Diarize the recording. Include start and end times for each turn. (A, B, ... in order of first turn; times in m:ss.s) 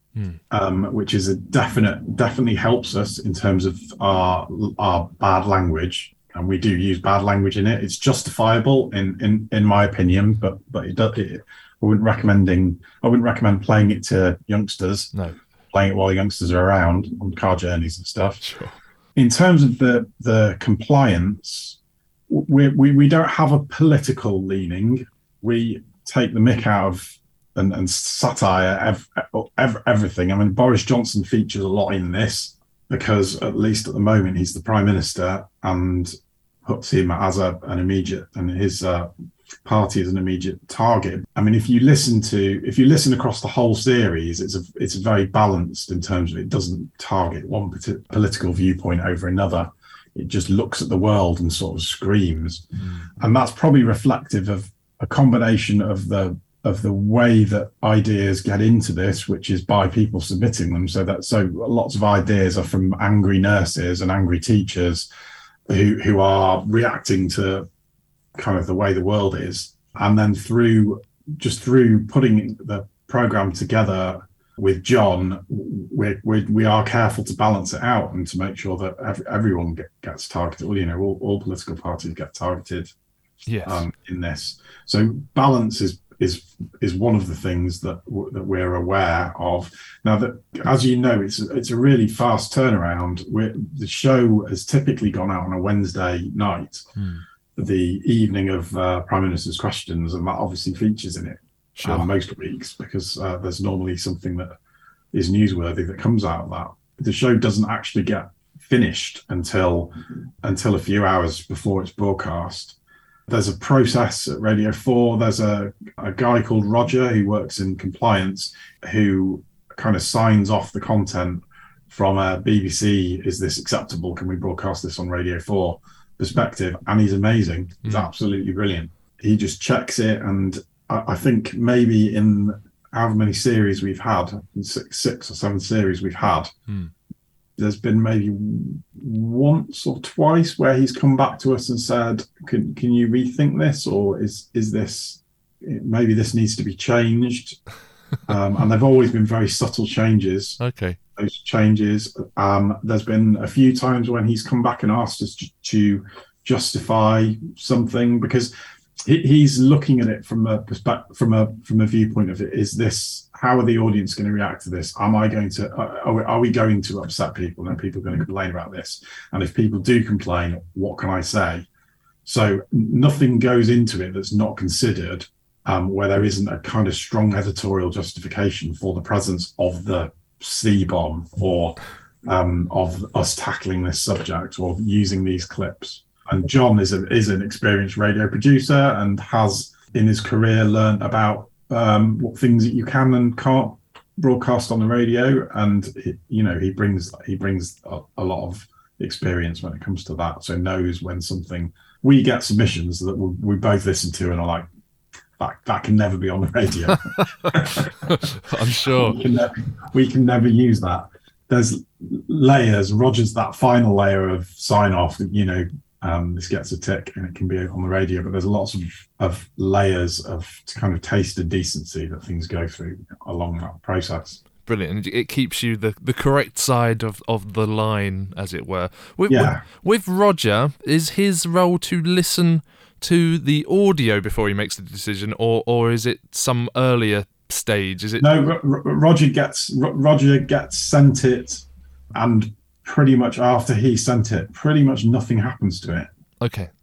0:00.5-0:15.1 A
0:15.7-0:18.4 A
0:18.4-0:18.8 B
0:19.1-0:21.8 A
0:22.3-0:39.1 A
0:39.6-1:05.1 A
0:52.8-0:53.1 B
1:05.7-1:07.7 A
1:08.4-1:22.9 A
1:23.5-1:23.8 B
1:23.6-1:36.8 A
1:37.0-1:37.2 B
1:37.6-1:44.5 A
1:41.8-1:42.1 B
1:45.1-1:52.8 A
1:53.3-2:16.5 A
2:17.6-2:27.6 A
2:28.3-2:30.6 A
2:30.6-2:31.0 B
2:31.2-2:51.7 A
2:52.2-3:24.7 A
3:25.4-3:28.1 A
3:27.1-3:29.2 B
3:28.8-3:44.4 A
3:44.6-3:58.3 B
3:49.3-3:49.6 A
3:58.2-4:06.1 A
4:06.4-4:06.7 B